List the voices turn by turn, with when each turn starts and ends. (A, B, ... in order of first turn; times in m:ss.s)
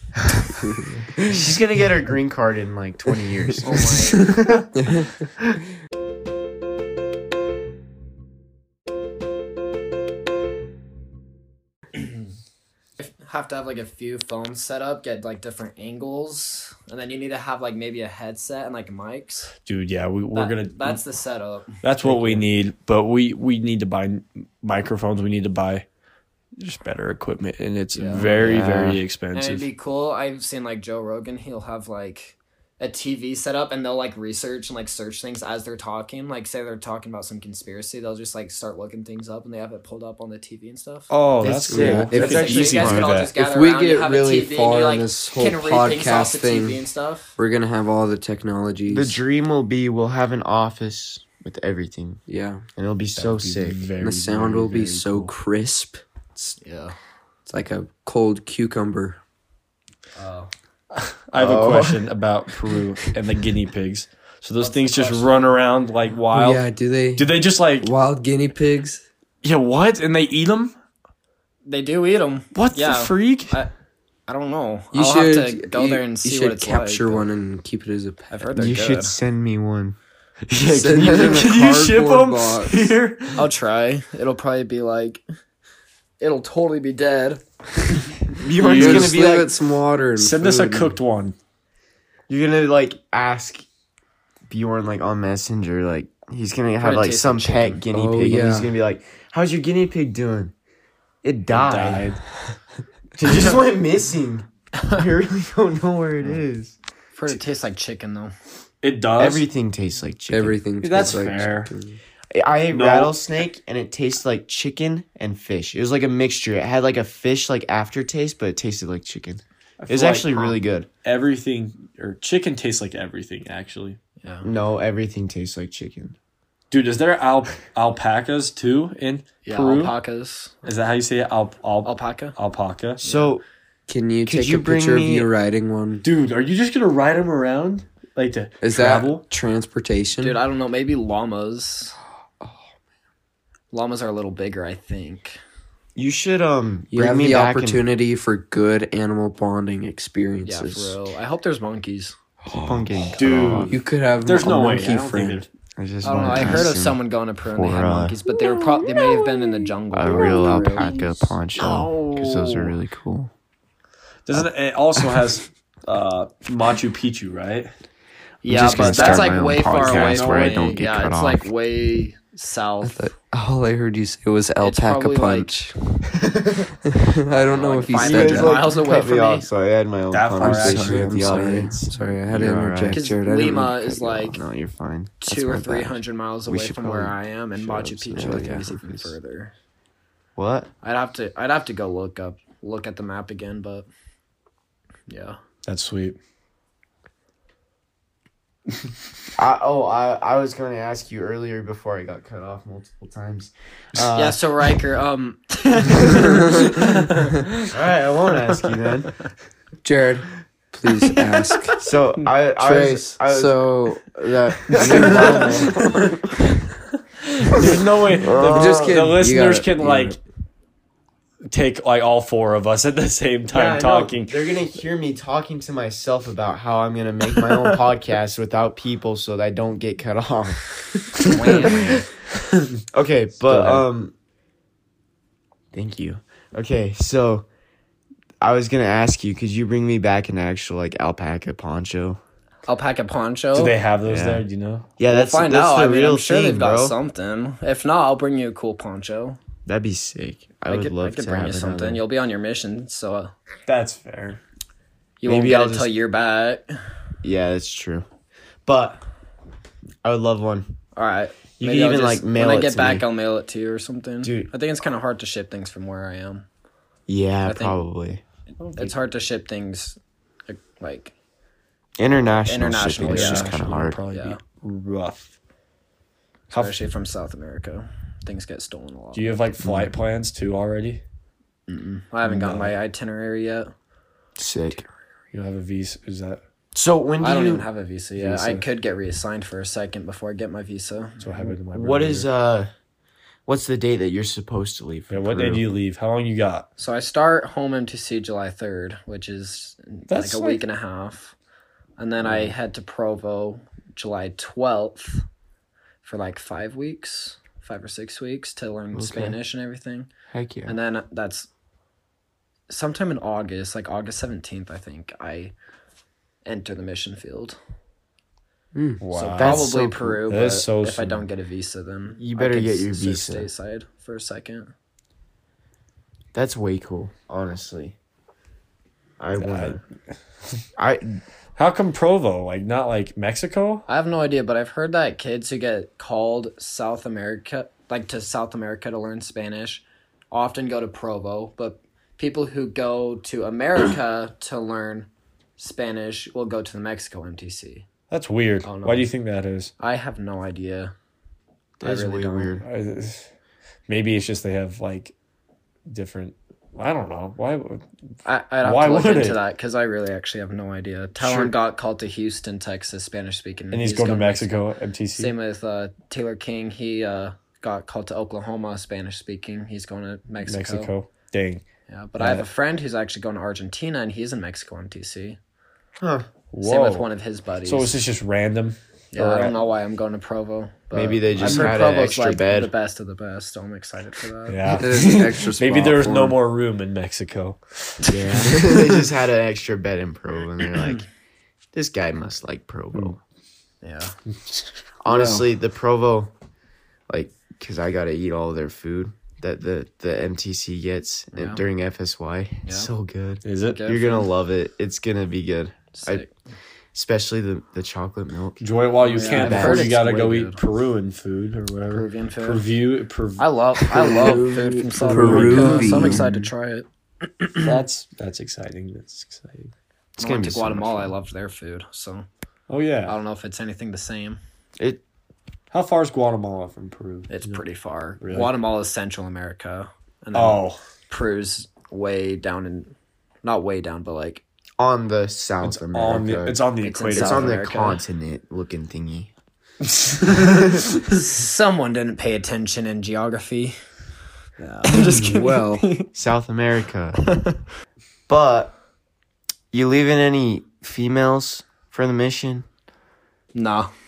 0:00.5-0:00.9 A
0:01.2-0:05.1 B
0:03.6-0:04.3 C
0:04.7-0:05.1 A
0:13.0-0:19.5 C
0:19.6-0:21.0 D
0:20.3-0:21.8 C
0:21.8-0:25.8 D
0:26.6-0:29.6 D
0:27.9-0:28.3 C
0:28.2-0:28.9 B
0:28.4-0:29.0 A
0:29.3-0:41.1 C
0:41.1-0:43.3 D
0:41.4-0:43.2 B
0:41.7-0:42.5 A
0:42.1-0:47.4 C
0:43.3-0:46.8 A
0:47.4-0:49.2 A
0:48.9-0:52.2 B
0:52.3-0:52.6 A
0:52.8-0:53.8 B
0:53.1-0:55.3 D
0:54.0-0:56.6 A
0:56.6-0:57.0 C
0:57.4-0:59.2 A
1:00.2-1:00.5 C
1:00.9-1:07.9 D
1:01.4-1:02.0 B
1:04.6-1:05.5 C
1:06.3-1:09.0 A
1:09.4-1:10.7 D
1:11.6-1:13.7 C
1:12.5-1:13.6 D
1:14.3-1:17.2 C
1:14.9-1:18.5 A
1:18.3-1:19.1 C
1:18.6-1:20.0 B
1:20.5-1:23.5 D
1:20.6-1:22.9 A
1:20.8-1:21.4 B
1:23.4-1:25.2 C
1:26.2-1:27.4 C
1:28.4-1:29.5 B
1:28.6-1:29.2 D
1:28.6-1:31.0 A
1:30.2-1:31.3 D
1:32.3-1:33.6 B
1:34.5-1:40.5 B
1:36.8-1:37.8 C
1:37.9-1:38.7 A
1:41.2-1:42.1 B
1:41.5-1:42.6 D
1:43.2-1:46.7 B
1:43.2-1:43.6 D
1:47.1-1:48.3 C
1:48.8-1:49.4 D
1:49.2-1:50.6 B
1:50.3-1:52.0 A
1:50.8-1:51.7 D
1:52.3-2:00.9 B
1:52.7-1:53.2 D
1:59.8-2:04.0 D
2:04.2-2:04.5 C
2:04.4-2:06.2 B
2:06.7-2:09.9 D
2:09.4-2:10.5 C
2:10.6-2:13.0 D
2:11.8-2:12.3 C
2:13.0-2:13.4 B
2:13.0-2:13.3 C
2:13.9-2:16.0 A
2:14.2-2:15.3 B
2:16.0-2:19.2 D
2:18.6-2:20.4 A
2:20.2-2:22.0 C
2:23.7-2:25.4 C
2:26.0-2:27.8 B
2:26.9-2:31.0 A
2:30.4-2:32.2 C
2:32.4-2:33.1 A
2:32.5-2:33.8 B
2:33.1-2:35.5 D
2:33.6-2:35.4 A
2:35.8-2:38.2 B
2:36.0-2:40.9 C
2:39.9-2:43.3 B
2:40.2-2:40.5 A
2:40.6-2:40.9 D
2:41.5-2:42.8 D
2:44.2-2:47.7 D
2:48.4-2:53.1 C
2:48.4-2:51.5 B
2:48.6-2:50.7 D
2:52.8-2:56.0 A
2:54.6-2:55.5 C
2:56.2-2:56.7 B
2:56.8-2:58.7 A
2:57.3-2:59.5 C
2:57.9-3:03.1 B
3:00.1-3:01.9 D
3:00.4-3:04.1 A
3:02.9-3:04.4 C
3:04.0-3:09.1 B
3:05.2-3:09.5 C
3:08.1-3:08.7 A
3:10.4-3:10.7 B
3:10.8-3:13.9 C
3:15.1-3:15.4 C
3:15.6-3:16.2 D
3:19.4-3:24.4 B
3:24.1-3:26.7 C
3:26.8-3:27.3 D
3:27.7-3:29.1 B
3:29.8-3:31.8 A
3:31.8-3:33.7 B
3:32.6-3:36.0 A
3:34.7-3:36.0 D
3:34.7-3:36.2 B
3:37.4-3:40.2 D
3:37.5-3:39.0 B
3:37.6-3:40.2 A
3:41.5-3:44.5 D
3:43.5-3:52.0 B
3:51.2-3:51.6 D
3:51.2-3:52.1 C
3:52.9-3:54.1 B
3:53.4-3:53.8 D
3:55.7-3:57.5 B
3:58.4-4:02.2 B
4:02.7-4:03.8 C
4:03.5-4:04.9 D
4:04.0-4:04.4 B
4:05.0-4:07.0 B
4:05.1-4:09.4 C
4:09.6-4:12.0 B
4:10.7-4:13.3 C
4:13.6-4:14.4 D
4:15.2-4:16.8 C
4:15.2-4:15.9 B
4:17.2-4:18.0 B
4:18.6-4:19.0 B
4:20.0-4:20.7 B
4:21.0-4:26.4 C
4:21.6-4:23.0 B
4:24.2-4:24.5 B
4:27.1-4:28.2 B
4:27.4-4:27.8 C
4:28.6-4:28.9 D
4:28.7-4:30.0 C
4:30.5-4:31.1 C
4:32.0-4:34.0 B
4:32.4-4:34.4 C
4:33.0-4:35.3 D
4:36.5-4:39.4 C
4:39.1-4:41.0 D
4:39.6-4:39.9 B
4:41.7-4:43.7 C
4:42.2-4:42.7 D
4:44.4-4:44.9 B
4:45.3-4:46.4 D
4:46.7-4:47.7 B
4:47.2-4:51.2 C
4:48.2-4:48.6 D
4:51.2-4:52.3 D
4:51.7-4:52.7 B
4:53.4-4:55.6 B
4:55.1-4:56.7 D
4:56.8-5:01.3 C
5:00.1-5:00.6 D
5:02.0-5:05.2 C
5:06.0-5:10.1 C
5:08.9-5:09.4 B
5:10.3-5:10.8 B
5:10.7-5:11.5 C
5:12.7-5:15.5 C
5:16.4-5:17.6 C
5:18.7-5:19.0 A
5:19.0-5:19.7 D
5:19.1-5:20.2 B
5:19.4-5:24.7 C
5:20.2-5:21.2 D
5:22.2-5:23.5 B
5:26.3-5:28.0 B
5:29.2-5:29.8 B
5:29.4-5:29.8 D
5:30.8-5:31.2 B
5:31.6-5:33.8 D
5:33.9-5:47.8 C
5:48.1-5:49.7 D
5:48.6-5:49.1 C
5:49.8-5:50.9 C
5:51.8-5:52.6 B
5:51.8-5:52.5 C
5:52.6-5:53.2 D
5:53.9-5:55.1 D
5:55.9-5:57.8 D
5:58.2-6:04.6 C
5:58.6-5:59.4 D
6:03.7-6:05.3 D
6:05.2-6:10.9 C
6:10.4-6:11.6 D
6:11.9-6:15.4 C
6:12.2-6:12.4 D
6:16.0-6:16.3 B
6:16.5-6:17.1 D
6:16.6-6:17.9 C
6:17.6-6:19.5 D
6:19.1-6:24.8 C
6:20.9-6:22.7 B
6:21.4-6:21.7 D
6:21.4-6:21.7 A
6:24.5-6:29.0 D
6:24.7-6:26.4 A
6:28.1-6:31.1 B
6:31.7-6:33.2 B
6:33.8-6:34.1 C
6:35.0-6:36.3 B
6:35.1-6:35.4 A
6:37.1-6:46.2 B
6:41.3-6:41.6 C
6:43.4-6:43.8 D
6:43.6-6:44.3 C
6:45.9-6:46.3 C
6:46.9-6:48.6 B
6:48.6-6:53.4 D
6:49.0-6:50.6 C
6:49.2-6:50.0 B
6:51.9-6:52.6 C
6:53.4-6:56.8 C
6:53.9-6:56.2 A
6:55.0-6:56.5 D
6:57.4-6:57.7 C
6:57.6-6:59.7 D
7:00.2-7:02.2 C
7:00.2-7:01.1 B
7:02.7-7:03.2 D
7:03.0-7:04.4 C
7:05.7-7:07.6 D
7:07.3-7:14.4 C
7:08.2-7:08.5 D
7:10.3-7:10.8 D
7:14.8-7:16.6 B
7:15.6-7:17.5 D
7:16.8-7:18.0 C
7:17.1-7:19.3 B
7:19.9-7:20.8 D
7:21.1-7:23.8 C
7:24.6-7:26.1 C
7:24.8-7:25.1 D
7:24.9-7:25.8 A
7:26.1-7:27.2 B
7:27.2-7:27.6 C
7:28.3-7:28.8 B
7:29.7-7:32.7 B
7:33.5-7:33.9 C